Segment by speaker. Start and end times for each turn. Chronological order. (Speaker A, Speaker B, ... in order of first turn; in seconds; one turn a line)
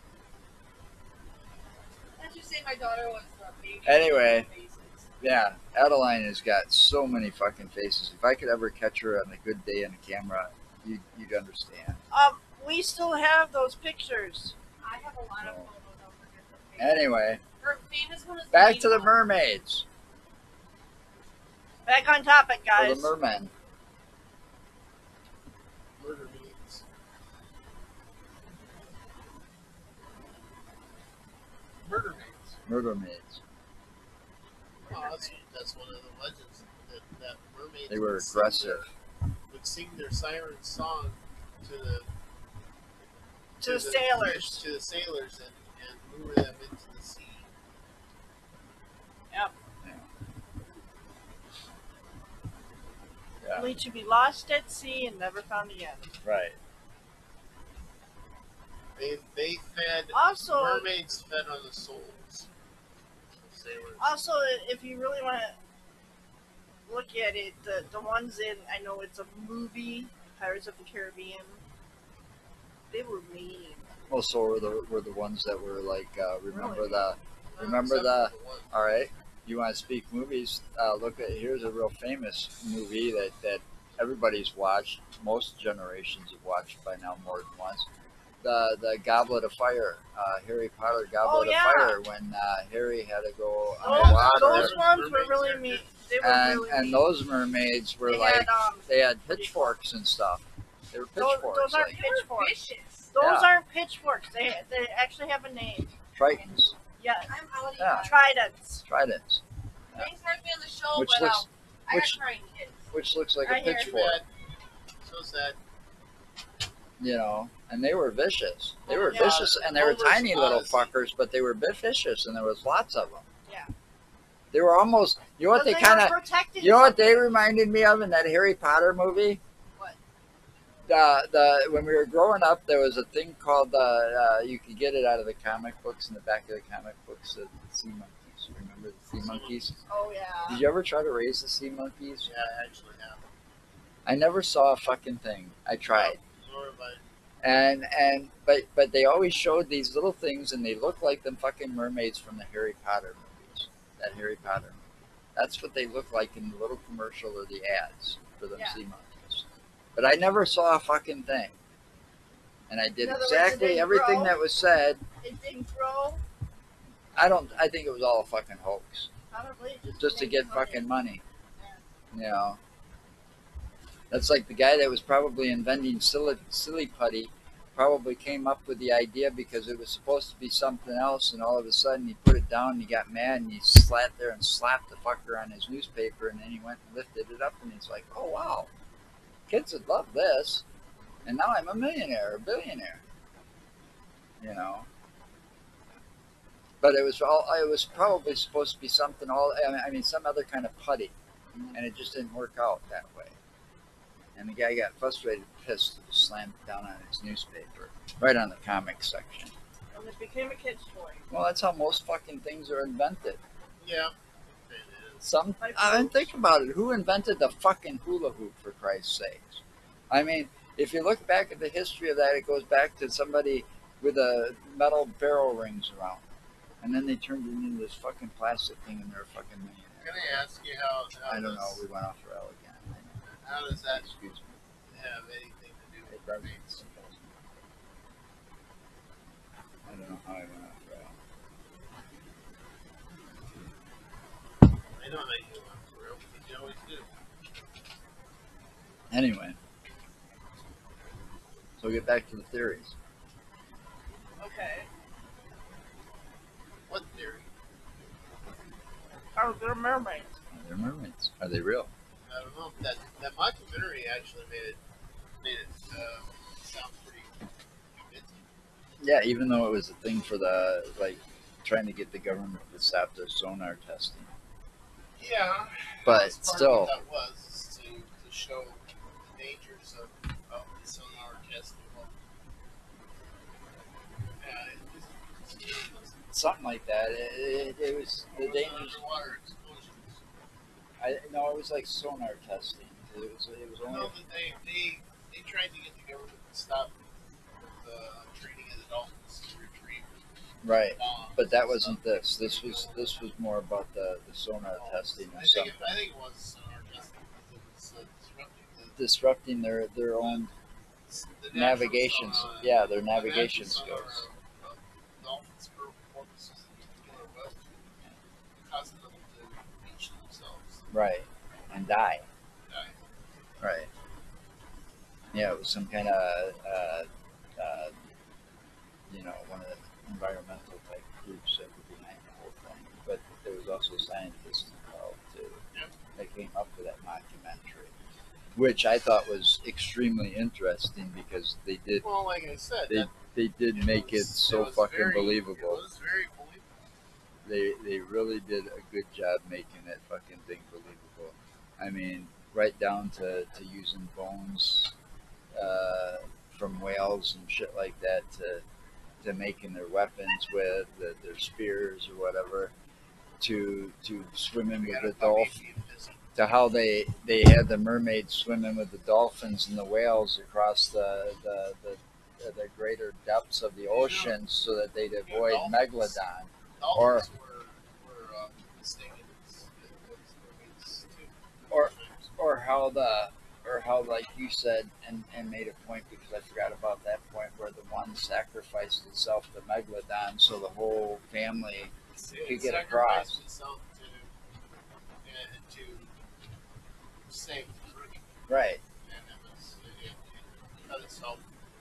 Speaker A: 2.2-5.1
Speaker B: 3.8-4.5
Speaker B: 5.2-12.0
Speaker C: 12.1-14.5
Speaker A: 14.8-19.2
Speaker B: 15.4-15.7
Speaker B: 16.8-17.4
Speaker B: 18.5-19.8
Speaker C: 21.9-23.1
Speaker B: 22.7-23.5
Speaker D: 26.0-26.8
Speaker D: 31.8-32.6
Speaker B: 32.7-33.4
Speaker A: 34.9-35.3
Speaker D: 34.9-38.9
Speaker B: 37.9-38.9
Speaker D: 39.5-42.1
Speaker C: 43.6-44.6
Speaker D: 43.6-47.5
Speaker B: 49.8-50.1
Speaker B: 53.4-53.7
Speaker C: 53.5-56.1
Speaker B: 56.2-56.6
Speaker D: 59.0-62.5
Speaker C: 60.1-60.9
Speaker D: 63.4-64.1
Speaker C: 64.0-65.5
Speaker C: 66.9-71.6
Speaker C: 72.9-73.9
Speaker B: 74.1-87.9
Speaker C: 76.5-77.1
Speaker D: 77.5-78.7
Speaker B: 88.4-94.8
Speaker C: 91.2-92.0
Speaker C: 93.8-97.1
Speaker D: 93.8-95.9
Speaker B: 96.2-102.0
Speaker C: 98.0-99.8
Speaker C: 101.2-102.6
Speaker A: 101.9-103.1
Speaker C: 103.1-105.9
Speaker B: 103.2-103.5
Speaker B: 106.1-106.7
Speaker C: 107.0-107.3
Speaker A: 107.3-108.3
Speaker B: 107.8-108.1
Speaker C: 108.0-108.8
Speaker B: 108.8-109.4
Speaker A: 109.9-112.8
Speaker B: 110.9-112.2
Speaker B: 112.9-114.2
Speaker C: 113.4-113.9
Speaker D: 113.8-114.3
Speaker D: 115.0-115.6
Speaker B: 117.0-123.2
Speaker D: 118.9-120.9
Speaker C: 119.1-119.5
Speaker B: 124.5-129.4
Speaker C: 125.5-127.4
Speaker B: 130.8-139.7
Speaker D: 139.1-139.8
Speaker C: 139.9-140.6
Speaker B: 140.5-142.3
Speaker D: 142.2-143.3
Speaker B: 144.1-146.2
Speaker D: 145.9-147.0
Speaker B: 147.4-154.8
Speaker B: 155.3-161.5
Speaker C: 158.5-158.8
Speaker B: 162.7-165.0
Speaker C: 163.0-164.4
Speaker C: 165.2-166.2
Speaker B: 167.2-169.1
Speaker C: 169.3-170.9
Speaker B: 170.0-171.2
Speaker C: 171.6-171.8
Speaker B: 172.1-172.6
Speaker B: 174.1-188.7
Speaker B: 189.5-190.6
Speaker B: 191.2-193.0
Speaker B: 194.4-194.9
Speaker B: 196.8-201.1
Speaker B: 201.7-203.3
Speaker B: 204.3-209.5
Speaker C: 209.9-211.2
Speaker B: 211.3-213.4
Speaker D: 213.8-214.1
Speaker D: 214.7-215.2
Speaker B: 215.2-226.2
Speaker C: 215.6-216.3
Speaker B: 226.8-230.4
Speaker D: 230.0-231.8
Speaker B: 231.3-233.2
Speaker D: 233.2-234.1
Speaker B: 233.9-234.6
Speaker D: 234.9-237.0
Speaker B: 236.1-237.2
Speaker B: 239.9-241.1
Speaker D: 245.0-247.1
Speaker B: 249.1-249.6
Speaker B: 251.8-252.9
Speaker C: 254.4-254.9
Speaker D: 256.9-257.5
Speaker C: 259.4-260.3
Speaker B: 260.5-261.9
Speaker D: 262.3-264.8
Speaker D: 265.4-267.4
Speaker D: 267.9-268.4
Speaker B: 269.0-274.3
Speaker D: 275.2-282.1
Speaker B: 276.0-276.9
Speaker D: 284.4-286.2
Speaker B: 286.3-289.0
Speaker D: 288.4-290.2
Speaker B: 291.0-294.1
Speaker D: 293.8-296.9
Speaker D: 297.8-300.2
Speaker B: 300.6-305.9
Speaker D: 300.9-303.2
Speaker D: 304.7-309.0
Speaker B: 309.0-310.5
Speaker D: 310.2-310.5
Speaker D: 311.1-317.9
Speaker B: 311.5-314.2
Speaker D: 318.6-320.9
Speaker B: 320.9-322.2
Speaker D: 322.7-323.0
Speaker B: 323.6-323.9
Speaker B: 325.3-327.9
Speaker B: 329.1-335.6
Speaker B: 336.1-337.9
Speaker B: 338.5-342.0
Speaker D: 342.0-343.1
Speaker B: 342.9-345.8
Speaker D: 343.7-346.6
Speaker B: 347.4-354.9
Speaker B: 355.5-358.6
Speaker B: 359.2-362.7
Speaker B: 363.4-365.5
Speaker D: 364.7-366.2
Speaker B: 366.4-377.3
Speaker D: 373.9-374.4
Speaker D: 375.2-376.2
Speaker D: 376.8-382.3
Speaker B: 381.7-391.9
Speaker D: 392.1-394.3
Speaker B: 392.4-393.4
Speaker D: 395.2-396.1
Speaker D: 397.3-398.2
Speaker B: 398.5-398.8
Speaker D: 399.0-401.4